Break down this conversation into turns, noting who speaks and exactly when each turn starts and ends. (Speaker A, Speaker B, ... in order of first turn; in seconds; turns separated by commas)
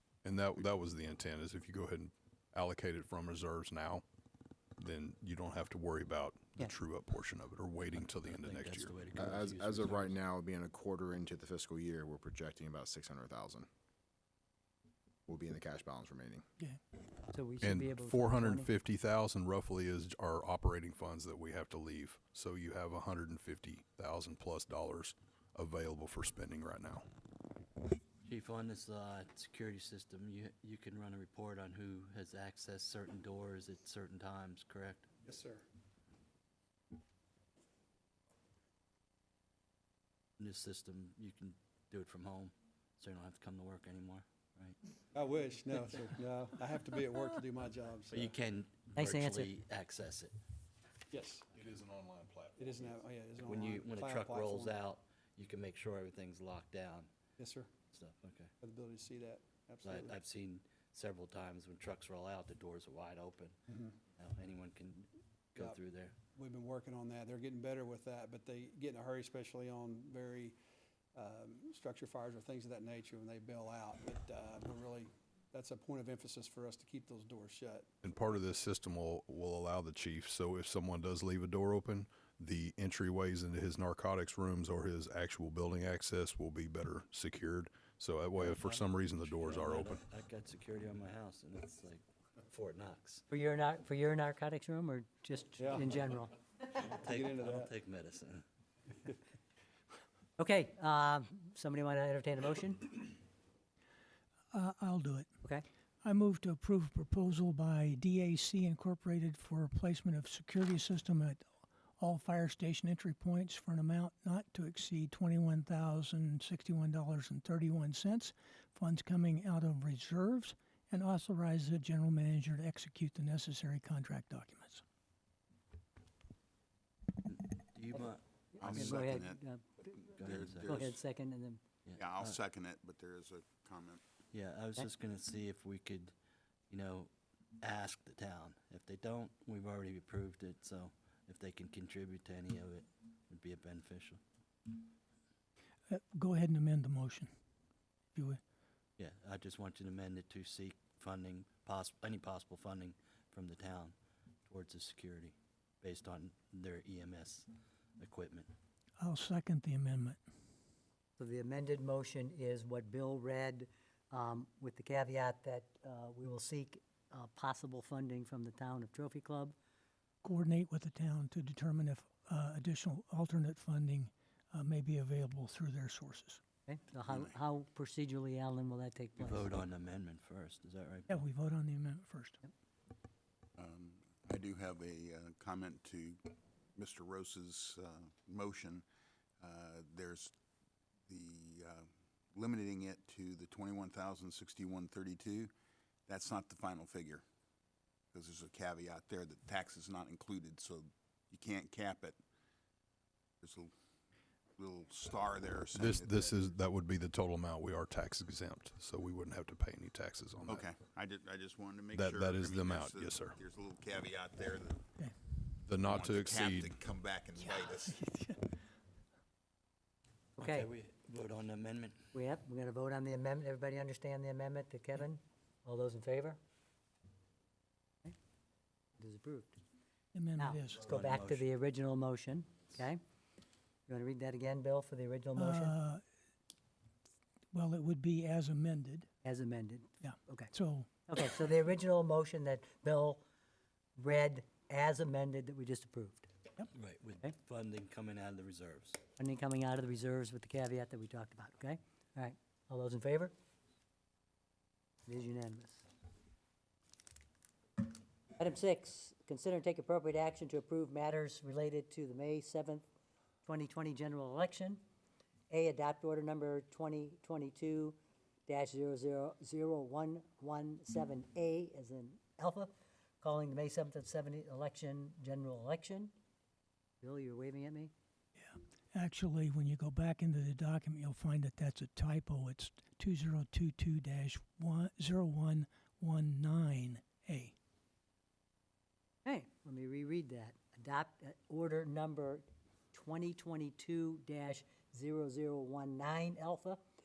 Speaker A: 0.2-4.0, Speaker A: 4.8-8.9, Speaker B: 7.9-10.2, Speaker C: 9.1-13.7, Speaker C: 15.3-16.4, Speaker D: 17.3-18.7, Speaker A: 17.6-27.0, Speaker B: 28.2-35.1, Speaker E: 35.2-35.6, Speaker B: 40.4-44.8, Speaker E: 45.1-48.2, Speaker B: 48.1-50.4, Speaker D: 49.0-49.5, Speaker E: 51.1-51.4, Speaker A: 51.5-53.0, Speaker E: 52.6-54.7, Speaker B: 53.4-57.1, Speaker E: 57.4-57.7, Speaker B: 57.9-58.5, Speaker E: 58.6-60.1, Speaker B: 59.8-66.2, Speaker E: 66.3-70.6, Speaker E: 71.1-77.9, Speaker A: 78.0-90.0, Speaker B: 88.4-93.2, Speaker D: 93.3-96.3, Speaker E: 95.6-95.8, Speaker B: 96.7-98.4, Speaker E: 97.1-97.7, Speaker D: 100.4-103.1, Speaker F: 104.5-105.3, Speaker F: 106.0-124.8, Speaker B: 127.3-129.1, Speaker D: 128.5-131.6, Speaker G: 128.7-129.4, Speaker G: 130.2-130.9, Speaker B: 130.2-131.0, Speaker B: 131.8-132.4, Speaker G: 132.0-134.0, Speaker B: 134.3-136.1, Speaker B: 136.7-137.1, Speaker B: 137.6-144.2, Speaker F: 145.9-147.3, Speaker F: 148.1-148.4, Speaker B: 149.0-153.9, Speaker B: 154.5-158.5, Speaker F: 159.0-160.2, Speaker D: 161.2-169.5, Speaker F: 170.2-176.4, Speaker D: 176.7-179.5, Speaker B: 179.2-181.1, Speaker F: 181.1-182.4, Speaker G: 183.6-188.8, Speaker G: 189.4-190.3, Speaker G: 191.1-195.5, Speaker G: 196.1-197.2, Speaker G: 198.1-202.2, Speaker G: 203.4-203.7, Speaker G: 204.6-206.4, Speaker A: 205.7-210.7, Speaker G: 210.5-214.9, Speaker A: 211.9-213.3, Speaker A: 215.7-216.8, Speaker G: 215.9-218.0, Speaker F: 217.4-218.5, Speaker D: 220.4-220.7, Speaker B: 220.4-221.9, Speaker D: 222.1-226.4, Speaker D: 229.0-229.6, Speaker F: 230.1-230.8, Speaker D: 230.4-233.0, Speaker B: 230.8-231.4, Speaker D: 233.9-235.7, Speaker F: 235.4-236.0, Speaker F: 237.5-239.1, Speaker D: 239.2-240.5, Speaker F: 240.0-240.9, Speaker D: 241.1-243.2, Speaker D: 244.0-246.3, Speaker B: 246.7-249.0, Speaker D: 249.2-253.3, Speaker D: 255.1-255.8, Speaker D: 258.4-262.9, Speaker D: 263.4-264.8, Speaker D: 265.5-276.1, Speaker D: 277.0-277.9, Speaker F: 278.4-287.5, Speaker D: 289.2-296.8